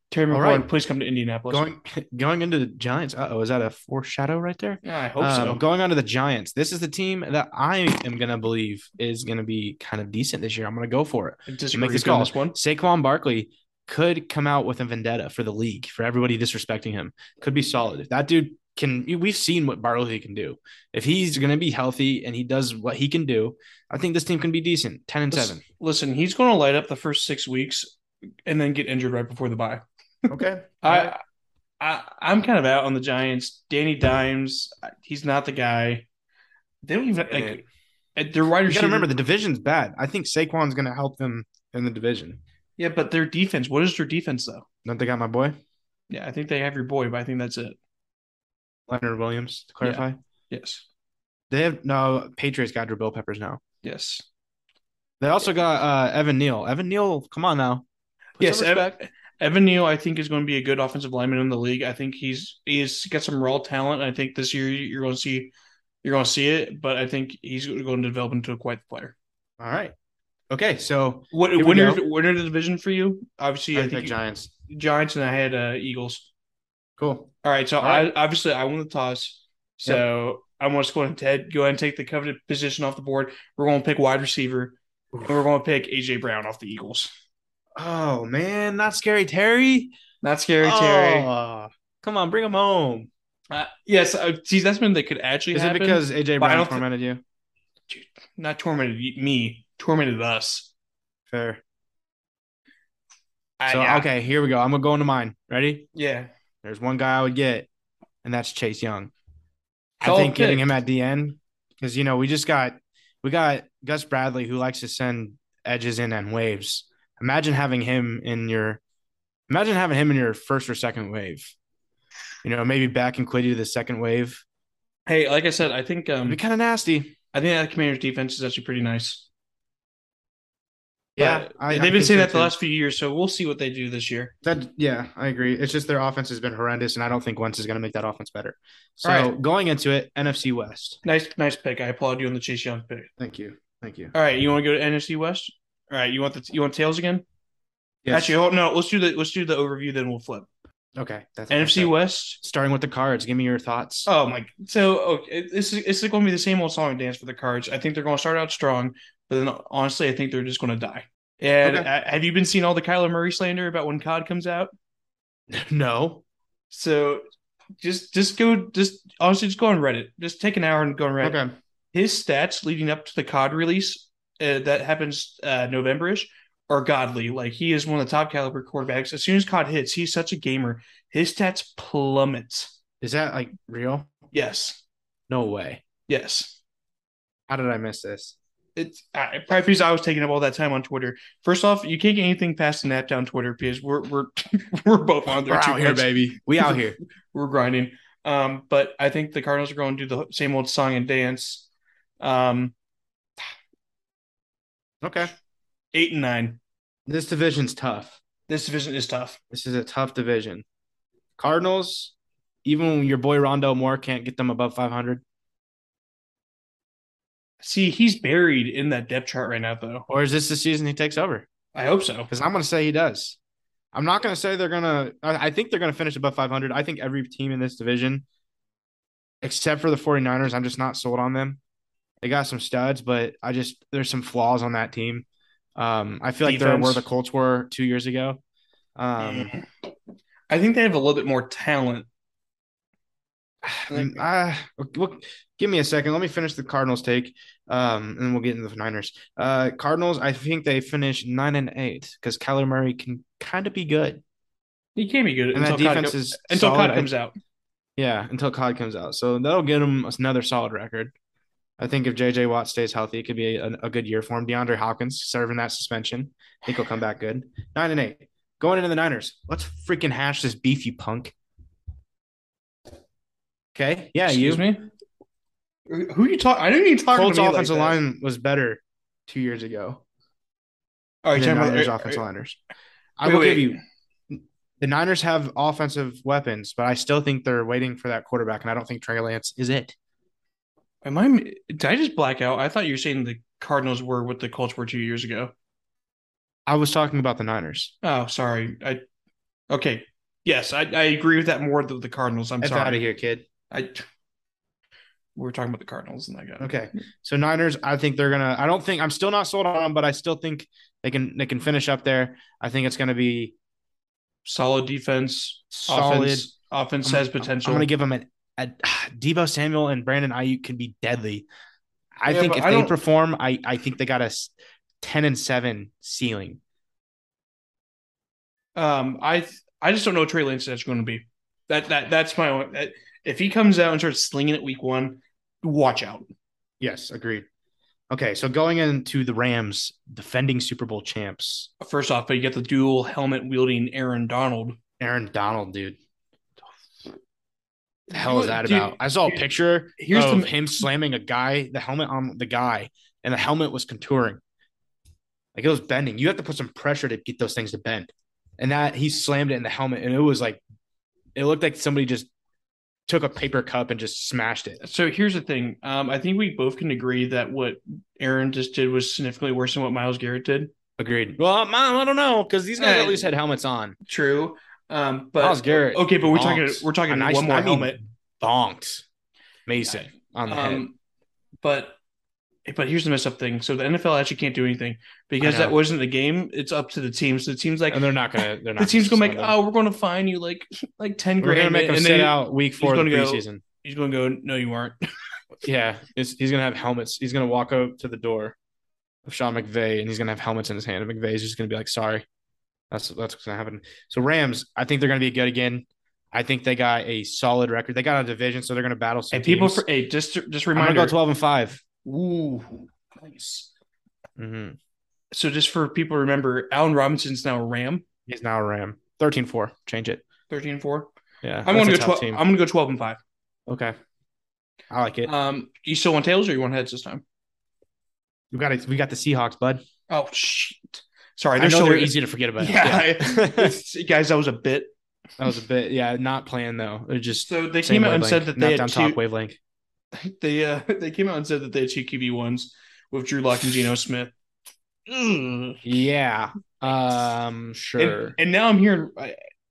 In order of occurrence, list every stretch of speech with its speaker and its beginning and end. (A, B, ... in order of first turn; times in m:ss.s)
0:00.1-0:01.6 A
0:00.3-0:00.7 B
0:01.5-0:25.6 B
0:04.8-0:05.6 A
0:11.5-0:12.6 A
0:25.3-0:27.9 A
0:28.5-0:29.8 A
0:30.3-0:31.2 B
0:30.8-0:31.2 A
0:31.8-0:36.1 A
0:36.8-0:37.6 A
0:37.3-0:37.6 B
0:38.2-0:39.1 A
0:38.7-0:42.4 B
0:42.8-0:44.7 A
0:44.8-0:45.6 B
0:46.1-0:47.8 A
0:48.9-0:50.2 B
0:49.8-0:50.8 A
0:51.5-0:53.6 B
0:53.8-0:54.3 A
0:55.2-0:57.8 B
0:58.4-1:09.2 A
0:58.4-0:59.0 B
1:09.6-1:09.9 B
1:10.5-1:12.0 B
1:11.3-1:14.2 A
1:13.7-1:14.5 B
1:14.7-1:16.3 A
1:17.0-1:18.1 B
1:17.4-1:27.1 A
1:25.1-1:25.4 B
1:27.8-1:29.9 B
1:30.2-1:31.3 A
1:30.6-1:33.1 B
1:33.5-1:36.8 A
1:35.5-1:37.2 B
1:37.9-1:40.7 A
1:41.3-1:41.6 B
1:43.6-1:44.1 A
1:43.7-1:45.9 B
1:46.0-1:46.3 A
1:46.6-1:47.7 B
1:48.2-1:49.1 B
1:50.0-1:50.7 A
1:50.0-1:58.8 B
1:59.5-2:01.5 B
2:02.4-2:04.4 B
2:05.1-2:06.4 A
2:06.3-2:07.2 B
2:07.3-2:09.3 A
2:11.2-2:12.5 B
2:11.2-2:14.3 A
2:14.4-2:21.0 B
2:19.0-2:19.3 A
2:21.0-2:23.1 A
2:23.2-2:24.1 B
2:24.1-2:27.2 A
2:28.0-2:28.4 B
2:28.1-2:30.5 A
2:31.0-2:34.1 B
2:31.5-2:32.4 A
2:34.1-2:44.7 A
2:41.6-2:41.9 B
2:45.5-2:46.2 B
2:46.7-2:47.2 A
2:47.8-2:51.4 A
2:51.2-2:51.6 B
2:51.9-3:02.8 A
3:03.0-3:04.1 B
3:04.3-3:04.8 A
3:05.3-3:05.8 B
3:06.1-3:06.6 A
3:07.5-3:08.4 B
3:08.8-3:21.7 A
3:15.4-3:17.0 B
3:22.2-3:22.7 A
3:25.0-3:25.3 B
3:25.9-3:26.6 A
3:27.1-3:28.2 B
3:28.5-3:29.4 A
3:29.5-3:30.6 B
3:31.4-3:32.1 B
3:32.6-3:35.2 B
3:37.6-3:40.1 A
3:40.1-3:41.5 B
3:41.7-3:42.3 A
3:42.3-3:43.4 B
3:43.9-3:48.2 B
3:49.4-3:51.6 B
3:52.2-3:58.4 B
3:56.4-3:57.1 A
3:59.0-3:59.5 B
3:59.2-3:59.7 A
4:00.5-4:02.1 A
4:03.6-4:14.2 B
4:03.9-4:04.2 A
4:15.0-4:17.4 A
4:15.5-4:17.1 B
4:18.0-4:21.1 B
4:21.8-4:31.3 B
4:33.8-4:34.7 B
4:34.2-4:34.9 A
4:35.9-4:38.0 A
4:37.1-4:40.0 B
4:41.2-4:42.2 A
4:41.3-4:42.6 B
4:43.2-4:43.8 B
4:43.2-4:43.8 A
4:44.3-4:50.0 B
4:51.0-4:55.5 A
4:56.7-4:57.9 B
4:58.0-4:59.0 A
4:59.7-5:03.0 A
5:02.6-5:03.4 B
5:03.7-5:04.0 A
5:05.4-5:06.7 A
5:06.6-5:13.5 B
5:14.5-5:17.9 A
5:15.7-5:16.5 B
5:17.0-5:21.5 B
5:22.2-5:26.6 B
5:22.3-5:23.0 A
5:28.8-5:36.3 A
5:36.8-5:37.5 B
5:38.1-5:41.7 B
5:41.8-5:44.8 A
5:45.0-5:46.0 B
5:48.1-5:49.5 A
5:48.1-5:54.4 B
5:50.0-5:50.8 A
5:55.6-6:00.6 B
6:01.4-6:02.3 B
6:03.1-6:04.8 B
6:04.8-6:10.7 A
6:11.0-6:14.0 B
6:12.8-6:13.3 A
6:14.1-6:18.0 A
6:15.4-6:19.0 B
6:19.7-6:20.9 B
6:19.8-6:21.0 A
6:21.6-6:22.0 A
6:22.7-6:35.0 A
6:25.4-6:25.8 B
6:27.9-6:29.6 B
6:31.4-6:33.6 B
6:35.6-6:38.6 B
6:39.3-6:42.2 B
6:42.9-6:49.8 B
6:49.3-6:51.2 A
6:50.8-6:51.8 B
6:52.0-6:53.7 A
6:54.4-6:54.8 B
6:55.3-6:58.0 A
6:58.3-7:00.2 B
7:00.5-7:01.1 A
7:01.4-7:02.4 B
7:01.7-7:03.2 A
7:03.7-7:04.0 B
7:04.9-7:05.3 B
7:05.2-7:07.2 A
7:08.5-7:09.8 B
7:10.1-7:14.9 A
7:11.6-7:13.8 B
7:15.4-7:19.6 B
7:17.3-7:19.2 A
7:20.1-7:24.3 A
7:25.1-7:25.9 A
7:25.8-7:28.4 B
7:28.0-7:29.4 A